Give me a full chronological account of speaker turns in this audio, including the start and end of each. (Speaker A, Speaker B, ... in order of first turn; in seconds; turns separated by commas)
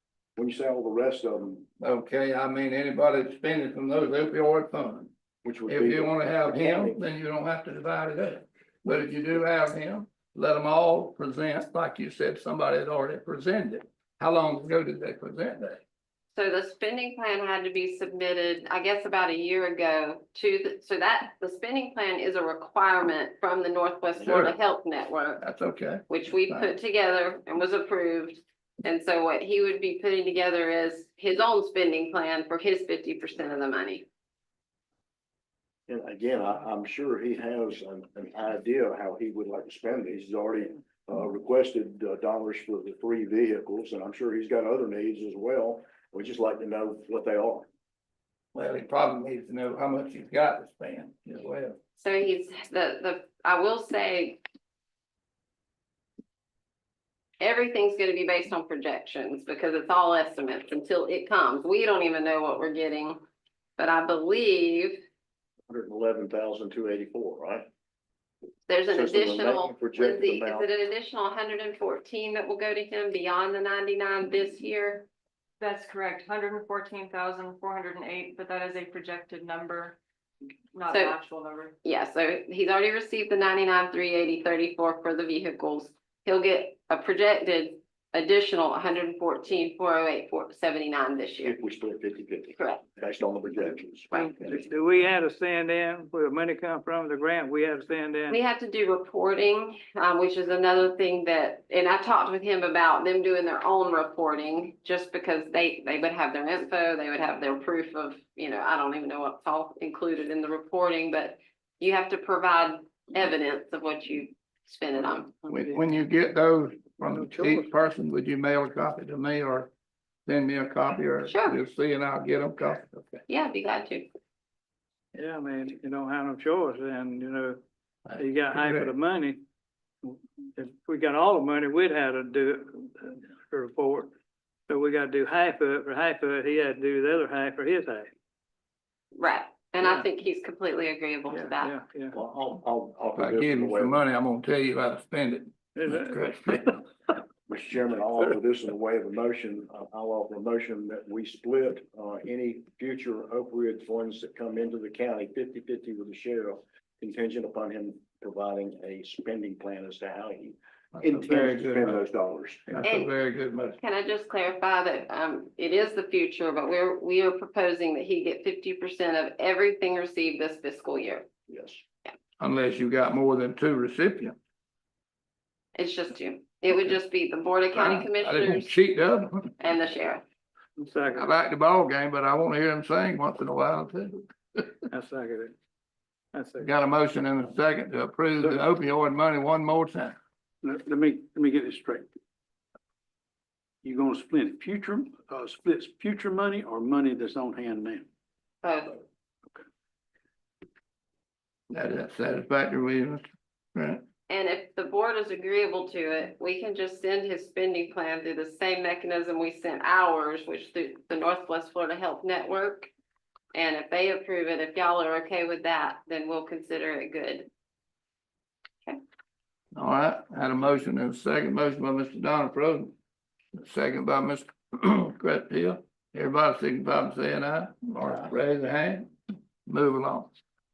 Speaker A: 0.4-1.7, Speaker B: 1.8-5.1, Speaker A: 5.4-7.0, Speaker B: 5.7-15.8, Speaker C: 16.3-25.4, Speaker B: 24.2-24.6, Speaker B: 25.4-26.7, Speaker C: 26.1-34.0, Speaker A: 35.9-47.7, Speaker B: 48.5-51.8, Speaker C: 52.0-54.4, Speaker C: 57.4-63.2, Speaker C: 63.8-65.0, Speaker A: 65.7-67.7, Speaker C: 68.7-75.1, Speaker A: 68.9-70.7, Speaker D: 75.6-80.0, Speaker D: 80.7-81.8, Speaker C: 80.9-81.2, Speaker C: 81.8-91.5, Speaker A: 91.4-94.5, Speaker C: 92.6-92.8, Speaker E: 94.1-98.4, Speaker C: 98.3-115.3, Speaker E: 115.4-115.8, Speaker B: 115.5-119.7, Speaker E: 117.0-117.7, Speaker B: 120.3-123.2, Speaker C: 121.3-121.6, Speaker C: 123.3-124.1, Speaker E: 125.2-127.6, Speaker B: 128.1-128.9, Speaker E: 128.2-129.4, Speaker E: 130.0-134.1, Speaker E: 134.7-138.1, Speaker C: 139.2-141.7, Speaker E: 139.8-140.1, Speaker E: 141.6-142.2, Speaker A: 142.1-144.0, Speaker B: 143.2-146.7, Speaker E: 145.8-146.7, Speaker A: 147.5-162.8, Speaker B: 160.9-162.0, Speaker B: 162.7-163.8, Speaker C: 162.8-163.1, Speaker C: 163.8-171.3, Speaker A: 171.5-171.8, Speaker B: 172.4-174.4, Speaker C: 175.8-178.7, Speaker B: 177.7-179.5, Speaker C: 179.6-180.2, Speaker E: 180.8-181.3, Speaker B: 181.2-184.8, Speaker E: 184.9-185.6, Speaker E: 186.3-186.7, Speaker B: 186.6-190.2, Speaker F: 190.6-192.1, Speaker F: 193.8-198.1, Speaker C: 198.6-199.0, Speaker B: 201.7-204.0, Speaker C: 204.3-212.9, Speaker C: 213.5-217.5, Speaker B: 219.8-222.9, Speaker B: 223.6-229.1, Speaker B: 229.7-230.3